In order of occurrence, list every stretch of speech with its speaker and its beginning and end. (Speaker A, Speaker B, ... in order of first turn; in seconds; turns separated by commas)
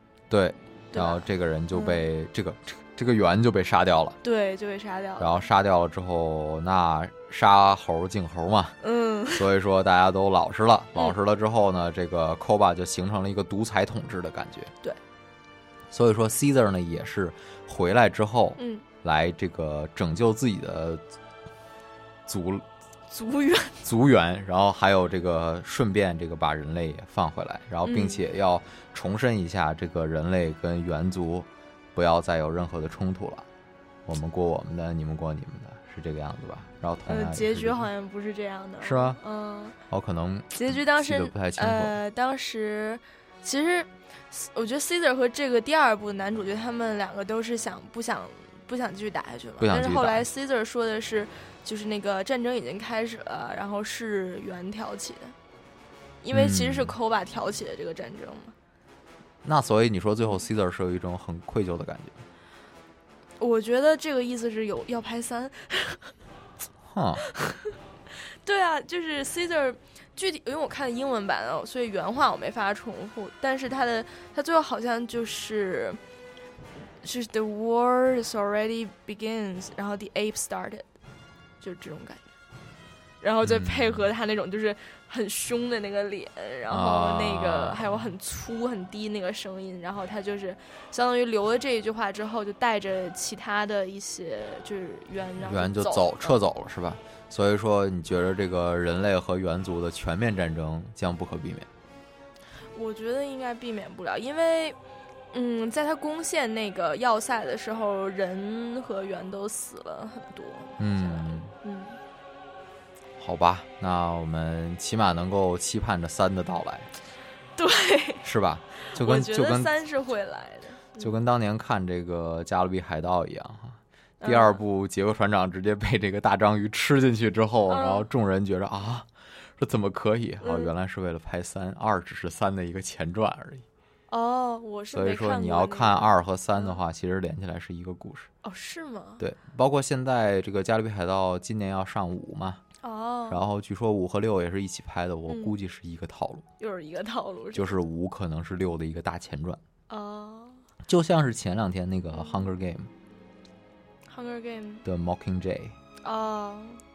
Speaker A: 0.3-4.2, Speaker B: 0.9-2.0, Speaker B: 4.2-5.3, Speaker A: 5.2-8.8, Speaker B: 8.8-9.5, Speaker A: 9.3-14.7, Speaker A: 15.9-21.0, Speaker B: 18.6-18.9, Speaker A: 22.2-22.6, Speaker B: 23.1-23.8, Speaker A: 23.8-33.5, Speaker B: 27.8-28.2, Speaker A: 34.1-37.9, Speaker B: 37.1-39.8, Speaker A: 38.8-39.2, Speaker A: 39.9-42.0, Speaker B: 40.5-55.3, Speaker A: 49.6-50.2, Speaker B: 56.2-58.5, Speaker A: 56.3-57.0, Speaker A: 59.4-62.2, Speaker B: 63.4-66.1, Speaker A: 66.9-67.2, Speaker B: 67.3-67.6, Speaker B: 68.4-76.0, Speaker B: 77.0-80.9, Speaker B: 81.6-82.3, Speaker B: 83.2-96.4, Speaker A: 83.4-84.0, Speaker A: 86.7-88.0, Speaker A: 95.4-101.7, Speaker B: 102.7-104.8, Speaker B: 105.3-112.0, Speaker A: 110.8-111.5, Speaker A: 113.2-116.9, Speaker B: 117.6-118.2, Speaker A: 118.2-119.7, Speaker B: 118.9-121.2, Speaker A: 121.0-133.6, Speaker B: 124.2-124.6, Speaker B: 127.7-128.1, Speaker B: 130.4-130.7, Speaker B: 134.1-136.8, Speaker A: 134.9-138.3, Speaker B: 138.4-139.2, Speaker A: 139.2-142.6, Speaker B: 142.8-143.4, Speaker A: 143.3-146.5, Speaker B: 145.3-145.6, Speaker B: 146.6-147.8, Speaker A: 147.5-149.6, Speaker B: 149.9-150.6, Speaker A: 150.8-152.9, Speaker B: 152.1-152.5, Speaker B: 154.1-154.8, Speaker A: 154.8-155.7, Speaker B: 156.0-156.8